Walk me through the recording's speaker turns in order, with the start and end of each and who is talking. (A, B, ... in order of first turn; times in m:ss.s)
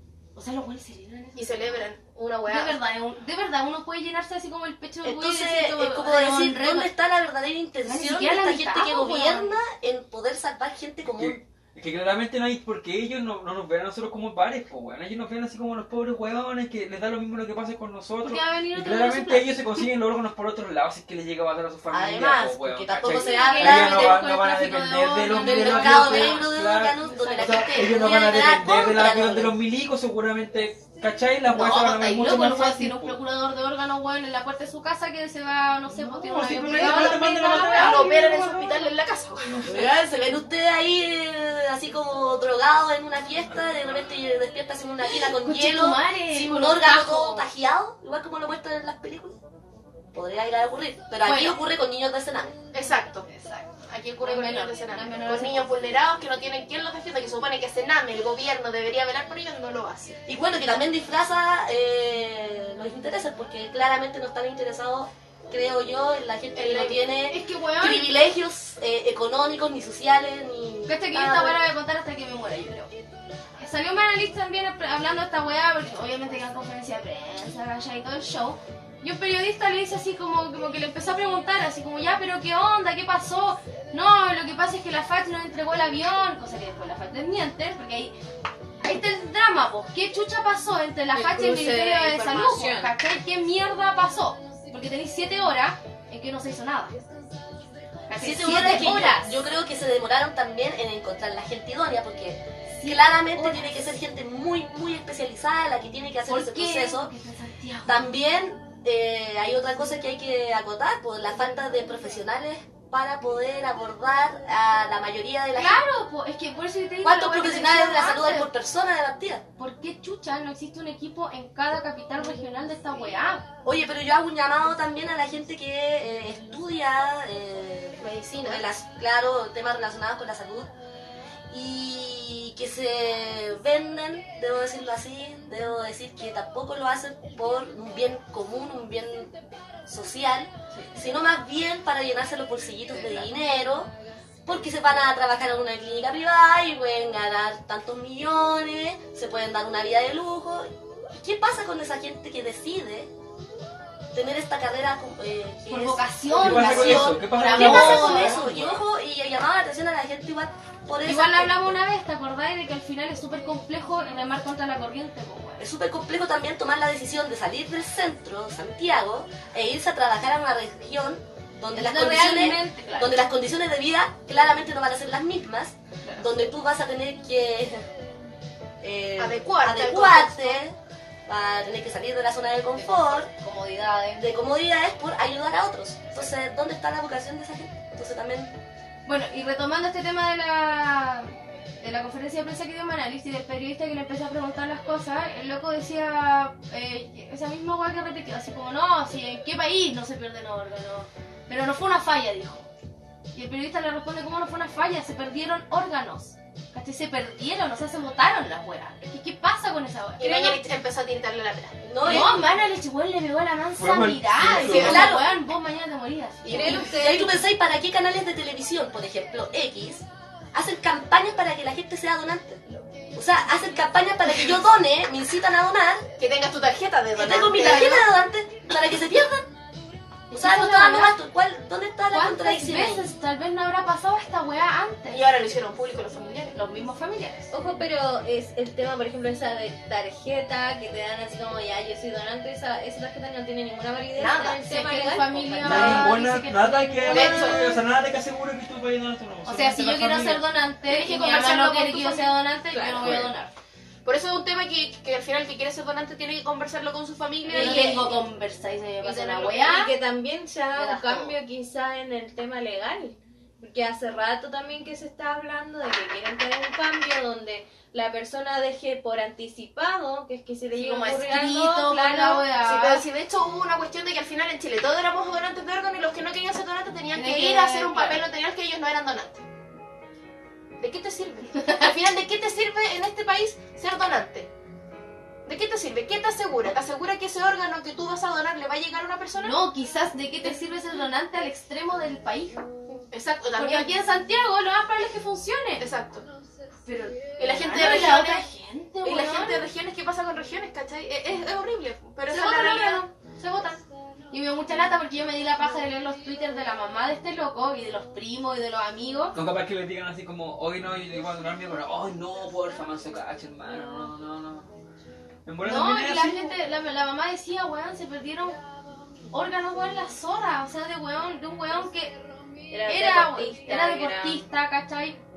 0:00.3-0:01.8 A
0:01.4-0:02.8 B
0:02.5-0:06.9 A
0:05.0-0:11.4 C
0:07.8-0:09.5 A
0:11.2-0:33.2 D
0:18.2-0:19.9 A
0:21.9-0:24.2 C
0:23.0-0:28.3 A
0:25.3-0:29.6 C
0:31.5-0:38.2 A
0:35.9-0:39.8 D
0:36.7-0:39.7 B
0:39.6-0:49.4 C
0:45.0-0:47.5 A
0:50.1-0:52.6 C
0:51.2-0:51.6 A
0:52.7-0:53.3 B
0:53.3-0:55.8 A
0:53.9-1:00.2 B
1:00.2-1:11.6 C
1:06.5-1:07.1 B
1:07.3-1:08.1 A
1:10.9-1:12.9 A
1:13.6-1:28.2 A
1:28.8-1:37.0 A
1:31.1-1:32.9 E
1:38.1-1:39.4 A
1:38.2-1:47.1 C
1:42.7-1:44.0 A
1:46.3-1:48.0 A
1:47.8-1:55.8 C
1:55.5-1:58.5 A
1:57.0-1:59.4 C
1:59.6-2:03.4 A
2:03.6-2:10.7 C
2:08.0-2:08.6 B
2:11.5-2:23.9 C
2:22.9-2:23.2 A
2:24.4-2:33.1 C
2:34.1-2:41.7 C
2:35.7-2:38.6 A
2:36.4-2:38.8 D
2:41.0-2:45.6 A
2:45.6-2:57.9 C
2:51.7-2:53.2 A
2:58.8-3:00.8 C
2:59.2-3:00.6 B
3:01.3-3:03.3 C
3:02.7-3:04.4 A
3:04.1-3:08.5 C
3:09.1-3:22.6 A
3:23.3-3:30.6 A
3:30.2-3:32.2 B
3:31.8-3:32.5 C
3:32.0-3:37.3 A
3:33.8-3:35.1 D
3:34.6-3:35.0 B
3:34.6-3:35.3 C
3:36.4-3:37.3 E
3:36.4-3:42.6 C
3:43.1-3:46.0 C
3:46.2-3:48.1 B
3:47.1-3:49.5 C
3:50.3-3:51.2 A
3:50.3-3:53.1 C
3:52.1-3:55.2 A
3:55.1-3:56.5 B
3:56.5-3:57.5 A
3:57.5-4:06.1 E
4:04.1-4:04.6 B
4:04.6-4:07.8 A
4:05.6-4:10.4 D
4:07.0-4:07.7 B
4:09.4-4:13.5 A
4:10.9-4:12.3 B
4:12.7-4:13.1 E
4:13.0-4:13.3 D
4:14.0-4:18.2 B
4:17.5-4:18.1 E
4:17.5-4:19.9 A
4:19.0-4:32.5 E
4:20.8-4:21.1 A
4:30.7-4:31.3 B
4:31.0-4:33.0 A
4:32.6-4:39.4 B
4:37.1-4:38.2 A
4:40.8-4:44.5 B
4:45.4-4:49.5 B
4:49.4-4:52.6 A
4:53.1-4:53.9 B
4:53.6-4:55.8 A
4:55.8-4:56.2 B
4:56.8-4:59.7 A
4:57.4-4:58.4 B
4:59.0-5:03.1 B
5:02.3-5:09.4 A
5:09.3-5:14.7 D
5:15.4-5:16.5 D
5:15.6-5:18.6 A
5:19.3-5:22.2 A
5:22.7-5:24.4 E
5:22.8-5:25.2 A